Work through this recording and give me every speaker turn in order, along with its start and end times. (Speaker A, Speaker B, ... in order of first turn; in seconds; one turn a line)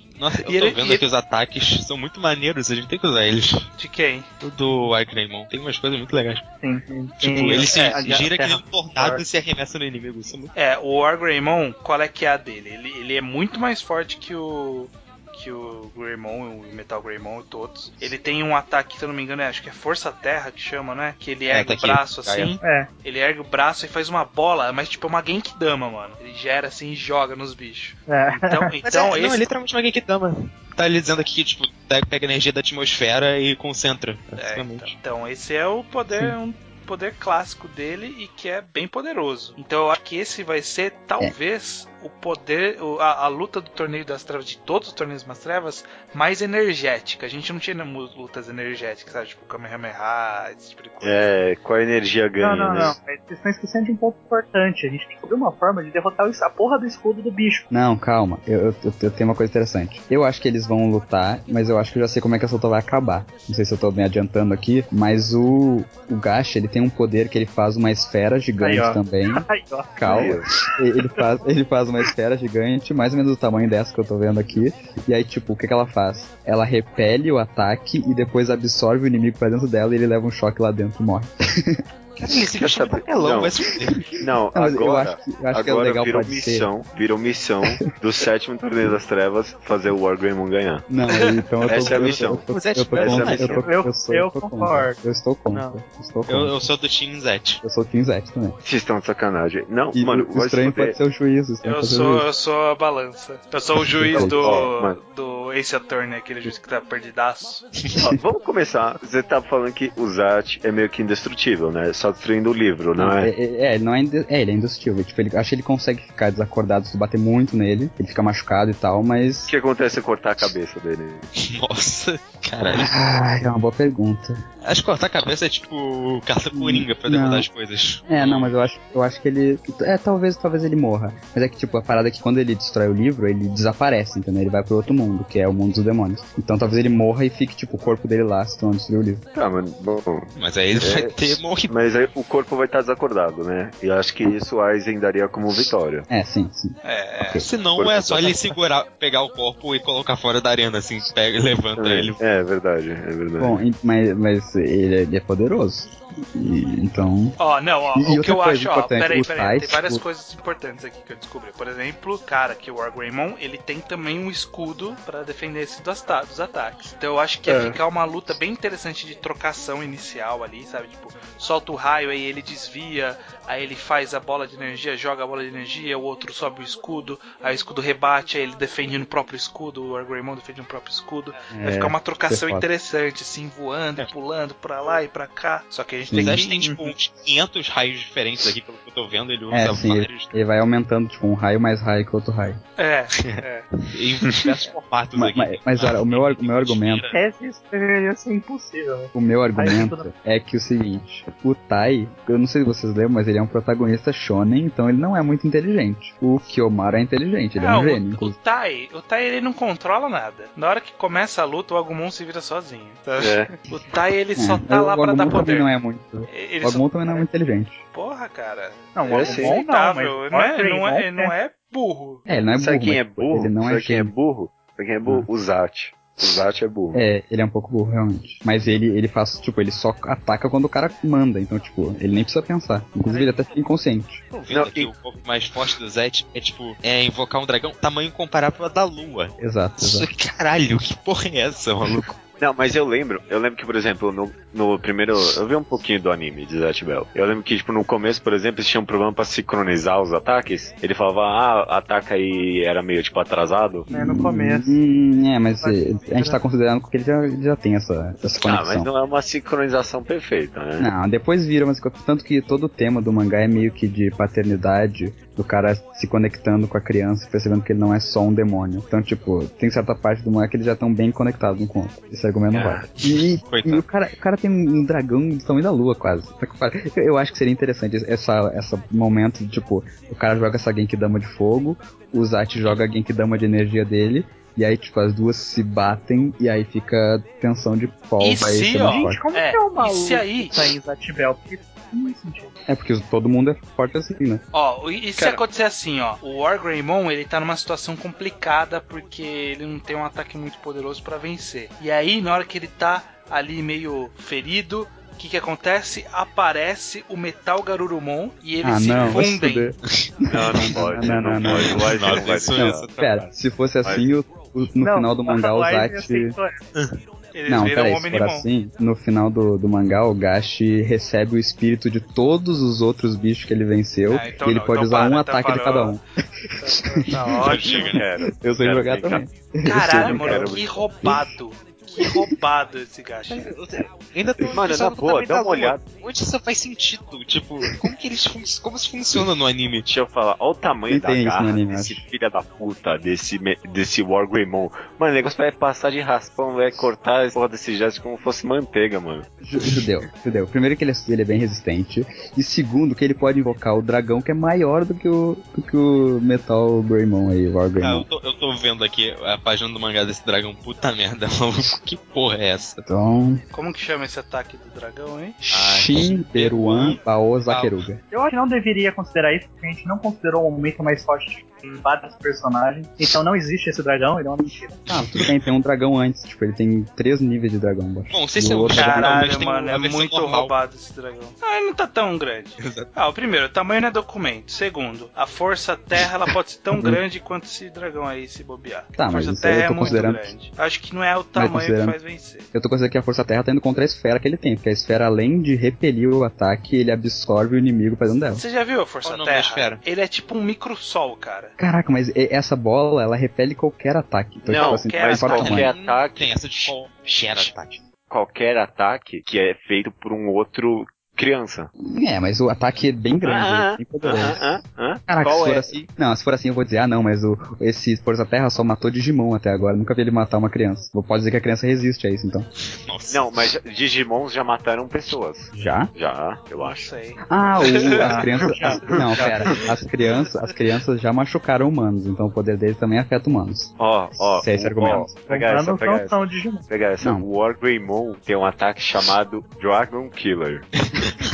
Speaker A: 0.2-3.6
Speaker B: 0.4-1.0
Speaker B: 3.8-4.3
Speaker A: 4.4-6.4
Speaker C: 6.6-9.2
Speaker A: 7.2-10.5
Speaker B: 7.6-8.0
Speaker B: 10.5-29.4
Speaker A: 21.5-22.6
Speaker C: 22.6-22.9
Speaker C: 28.1-28.7
Speaker A: 28.8-34.9
Speaker B: 34.4-51.3
Speaker D: 51.0-53.0
Speaker C: 52.4-57.7
Speaker E: 57.7-81.8
Speaker C: 68.6-70.7
Speaker D: 70.0-70.4
Speaker A: 82.2-84.1
Speaker D: 82.5-83.6
Speaker D: 84.2-90.8
Speaker E: 84.5-86.7
Speaker E: 90.9-96.5
Speaker A: 91.7-93.6
Speaker D: 91.7-93.7
Speaker C: 93.6-95.0
Speaker A: 96.3-97.6
Speaker E: 97.6-98.6
Speaker D: 98.6-101.0
Speaker E: 99.9-102.3
Speaker B: 101.6-107.7
Speaker E: 104.0-104.7
Speaker D: 104.1-105.0
Speaker D: 107.9-113.3
Speaker E: 113.0-119.5
Speaker D: 119.5-121.3
Speaker A: 121.4-123.0
Speaker E: 122.8-124.4
Speaker A: 124.7-128.7
Speaker E: 126.5-127.5
Speaker E: 128.1-139.2
Speaker D: 139.3-146.1
Speaker A: 140.4-141.7
Speaker E: 146.1-147.5
Speaker B: 146.8-147.4
Speaker A: 147.4-152.2
Speaker D: 147.8-148.4
Speaker D: 151.8-153.6
Speaker E: 153.4-157.4
Speaker B: 157.4-186.6
Speaker E: 157.9-160.0
Speaker E: 181.5-182.7
Speaker E: 186.1-186.4
Speaker A: 186.2-190.3
Speaker E: 189.5-192.6
Speaker B: 192.8-193.7
Speaker A: 193.2-197.2
Speaker E: 195.1-197.1
Speaker C: 197.1-200.1
Speaker E: 199.1-208.3
Speaker B: 207.6-215.7
Speaker D: 213.2-213.5
Speaker E: 214.4-217.8
Speaker B: 216.3-217.0
Speaker B: 217.9-222.2
Speaker C: 218.9-221.3
Speaker D: 219.1-219.6
Speaker E: 222.3-224.1
Speaker D: 222.6-227.0
Speaker E: 226.9-234.2
Speaker A: 234.3-242.2
Speaker D: 234.5-234.9
Speaker E: 239.4-240.1
Speaker D: 242.4-253.9
Speaker C: 253.9-254.8
Speaker E: 253.9-258.9
Speaker C: 255.6-256.4
Speaker D: 258.4-260.9
Speaker E: 260.8-289.2
Speaker D: 272.5-272.8
Speaker A: 273.0-273.9
Speaker B: 288.2-290.6
Speaker C: 288.9-292.5
Speaker E: 292.7-294.4
Speaker B: 294.5-309.7
Speaker E: 308.6-316.4
Speaker D: 310.3-313.1
Speaker A: 311.4-313.3
Speaker D: 313.8-314.1
Speaker C: 314.8-316.6
Speaker B: 317.3-318.4
Speaker E: 317.5-326.0
Speaker B: 324.1-326.0
Speaker B: 326.6-327.9
Speaker D: 327.5-329.2
Speaker E: 327.5-331.3
Speaker B: 329.6-333.4
Speaker D: 329.8-330.9
Speaker A: 333.3-339.9
Speaker D: 334.5-335.8
Speaker D: 339.9-349.3
Speaker E: 340.9-342.0
Speaker E: 349.4-358.1
Speaker A: 357.8-362.8
Speaker E: 362.8-363.4
Speaker B: 363.5-365.4
Speaker E: 365.4-368.0
Speaker A: 365.5-367.8
Speaker C: 368.1-374.8
Speaker A: 374.9-375.3
Speaker E: 374.9-379.4
Speaker A: 378.1-380.5
Speaker B: 378.8-392.5
Speaker A: 382.6-382.9
Speaker E: 388.9-390.3
Speaker E: 391.3-392.0
Speaker E: 392.5-398.4
Speaker B: 398.3-401.5
Speaker A: 399.0-399.8
Speaker E: 401.6-405.7
Speaker D: 404.4-406.8
Speaker B: 404.5-405.6
Speaker A: 405.3-407.8
Speaker D: 408.1-411.7
Speaker E: 411.8-414.4
Speaker D: 413.2-415.8
Speaker E: 415.1-422.5
Speaker A: 422.7-423.5
Speaker D: 423.1-426.9
Speaker E: 425.5-425.9
Speaker B: 426.6-428.3
Speaker E: 427.3-435.1
Speaker C: 428.0-429.4
Speaker D: 428.7-429.4
Speaker D: 433.8-440.6
Speaker C: 435.1-436.6